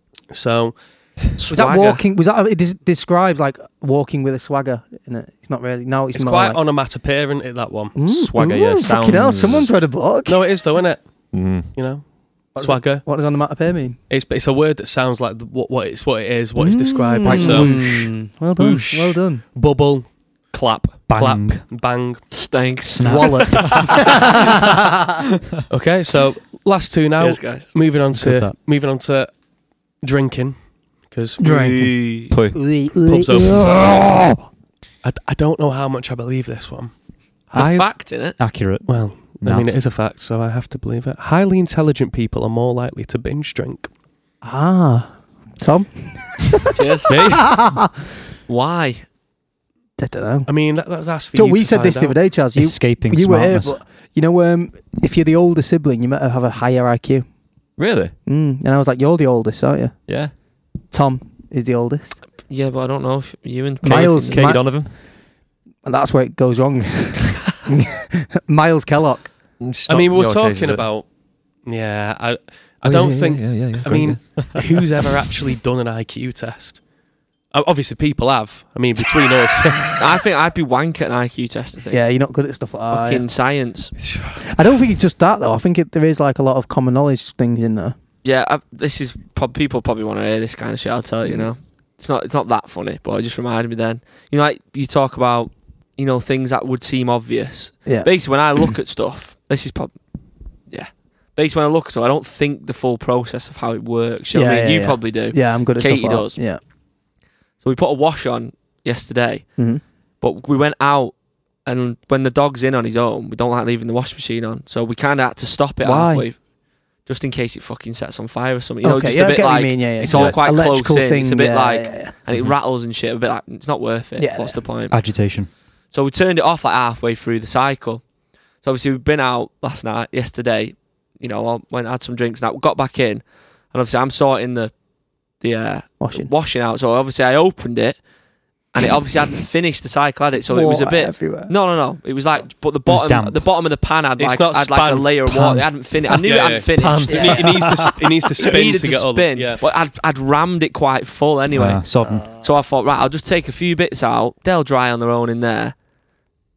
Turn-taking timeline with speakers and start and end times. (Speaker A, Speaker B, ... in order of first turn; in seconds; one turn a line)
Speaker A: 0.3-0.8
Speaker B: 1.4-2.0
Speaker C: 1.5-6.6
Speaker A: 6.1-8.0
Speaker C: 7.9-10.4
Speaker D: 8.0-9.7
Speaker A: 10.3-11.1
Speaker D: 11.3-11.7
Speaker A: 11.7-13.1
Speaker C: 12.6-14.0
Speaker A: 14.1-20.1
Speaker C: 16.6-19.4
Speaker A: 20.9-22.2
Speaker E: 21.1-21.6
Speaker B: 22.3-24.0
Speaker E: 23.0-24.1
Speaker C: 23.0-25.1
Speaker A: 25.7-29.3
Speaker B: 27.2-27.7
Speaker E: 28.1-28.5
Speaker A: 30.0-30.6
Speaker A: 31.1-31.4
Speaker B: 31.4-32.3
Speaker C: 31.4-34.4
Speaker D: 32.3-32.6
Speaker A: 33.0-34.0
Speaker A: 35.0-36.9
Speaker B: 37.5-38.4
Speaker A: 37.5-37.8
Speaker E: 38.4-39.8
Speaker A: 38.9-43.9
Speaker C: 44.4-48.1
Speaker B: 46.7-47.1
Speaker A: 47.1-47.5
Speaker B: 48.5-49.0
Speaker C: 50.0-50.5
Speaker A: 50.5-52.2
Speaker C: 51.3-57.2
Speaker E: 52.5-53.8
Speaker D: 57.8-58.1
Speaker C: 58.2-60.0
Speaker D: 60.1-60.3
Speaker C: 60.9-62.2
Speaker B: 62.5-64.5
Speaker C: 63.8-64.7
Speaker D: 63.9-65.0
Speaker C: 65.8-69.3
Speaker D: 69.6-70.8
Speaker A: 69.9-71.0
Speaker A: 71.6-76.8
Speaker D: 72.8-74.8
Speaker A: 77.5-80.0
Speaker B: 79.9-82.0
Speaker C: 81.9-83.2
Speaker B: 82.9-83.9
Speaker C: 84.4-88.0
Speaker B: 88.2-99.9
Speaker B: 100.7-106.4
Speaker C: 104.3-106.6
Speaker B: 107.6-109.5
Speaker B: 110.2-116.4
Speaker C: 115.8-116.2
Speaker B: 117.0-125.0
Speaker C: 118.8-122.1
Speaker D: 120.0-120.3
Speaker C: 124.2-124.6
Speaker E: 124.9-125.5
Speaker B: 125.9-128.0
Speaker B: 128.6-134.7
Speaker B: 135.4-138.0
Speaker C: 136.0-136.3
Speaker B: 138.7-147.7
Speaker C: 140.5-141.5
Speaker E: 142.9-143.4
Speaker A: 144.2-145.2
Speaker E: 145.3-145.7
Speaker A: 146.1-149.6
Speaker D: 146.8-147.2
Speaker C: 147.1-147.4
Speaker B: 148.4-155.7
Speaker E: 151.5-152.3